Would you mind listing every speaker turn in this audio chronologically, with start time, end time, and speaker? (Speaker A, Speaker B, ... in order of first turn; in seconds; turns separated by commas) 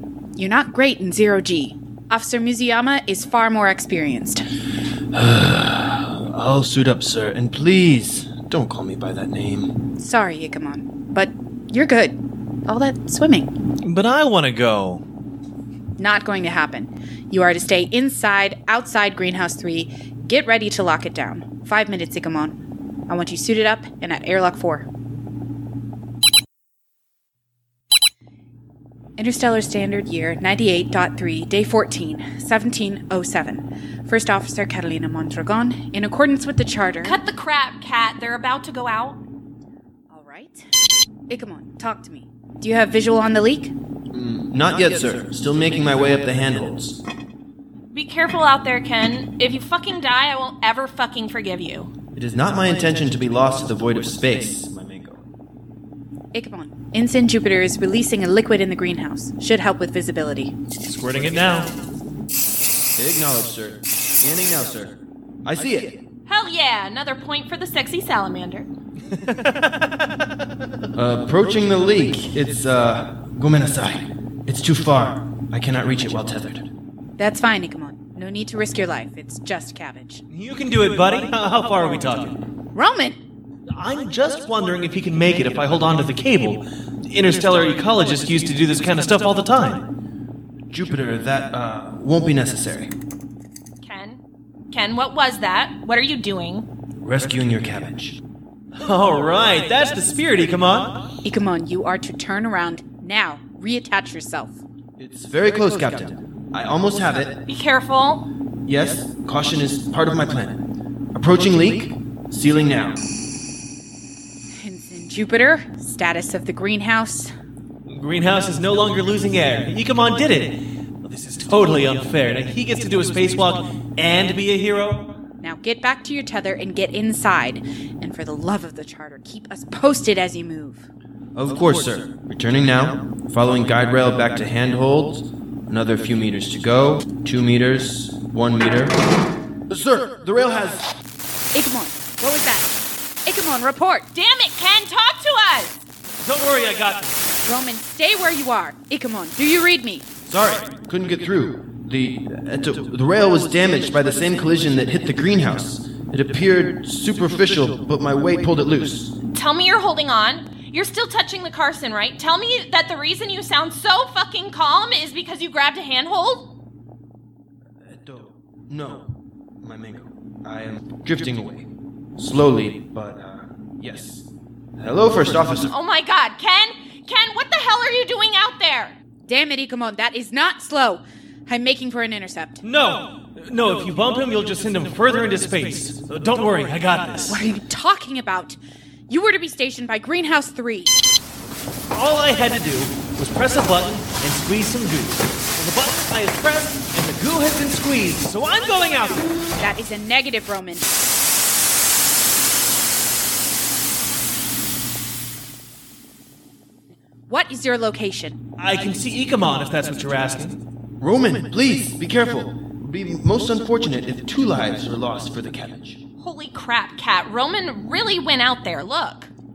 Speaker A: 0.3-4.4, Speaker B: 5.1-9.8, Speaker A: 10.0-13.6, Speaker C: 13.8-15.0, Speaker A: 16.0-24.9, Speaker A: 29.2-37.2, Speaker D: 37.0-39.2, Speaker A: 40.1-40.7, Speaker A: 41.3-43.7, Speaker B: 44.1-47.0, Speaker D: 47.9-51.9, Speaker B: 52.1-55.2, Speaker A: 56.3-60.5, Speaker C: 60.8-61.7, Speaker B: 63.0-66.0, Speaker D: 66.3-68.7, Speaker C: 69.2-70.1, Speaker B: 70.9-76.7, Speaker A: 77.2-80.2, Speaker C: 80.3-82.4, Speaker A: 82.7-83.2, Speaker C: 83.8-89.9, Speaker B: 90.7-92.9, Speaker D: 93.8-96.7, Speaker B: 97.0-98.2, Speaker C: 98.8-101.1, Speaker A: 101.2-104.6, Speaker B: 105.0-107.4, Speaker D: 107.5-108.3, Speaker B: 108.7-113.0, Speaker A: 114.5-117.3, Speaker C: 117.9-125.2, Speaker A: 125.4-130.9, Speaker B: 131.3-139.0, Speaker B: 139.7-140.8, Speaker A: 141.5-142.7, Speaker A: 143.2-144.1, Speaker D: 144.1-145.8, Speaker C: 146.2-147.2, Speaker A: 147.4-150.1, Speaker B: 150.3-159.1, Speaker D: 159.2-166.5, Speaker B: 167.9-175.7, Speaker D: 175.7-178.9, Speaker A: 179.2-182.6, Speaker C: 182.6-187.4, Speaker A: 187.3-188.6, Speaker A: 189.1-190.9, Speaker C: 191.9-199.3, Speaker A: 199.6-201.0, Speaker A: 207.3-208.4, Speaker C: 208.6-210.6, Speaker B: 211.0-216.0, Speaker D: 216.2-219.3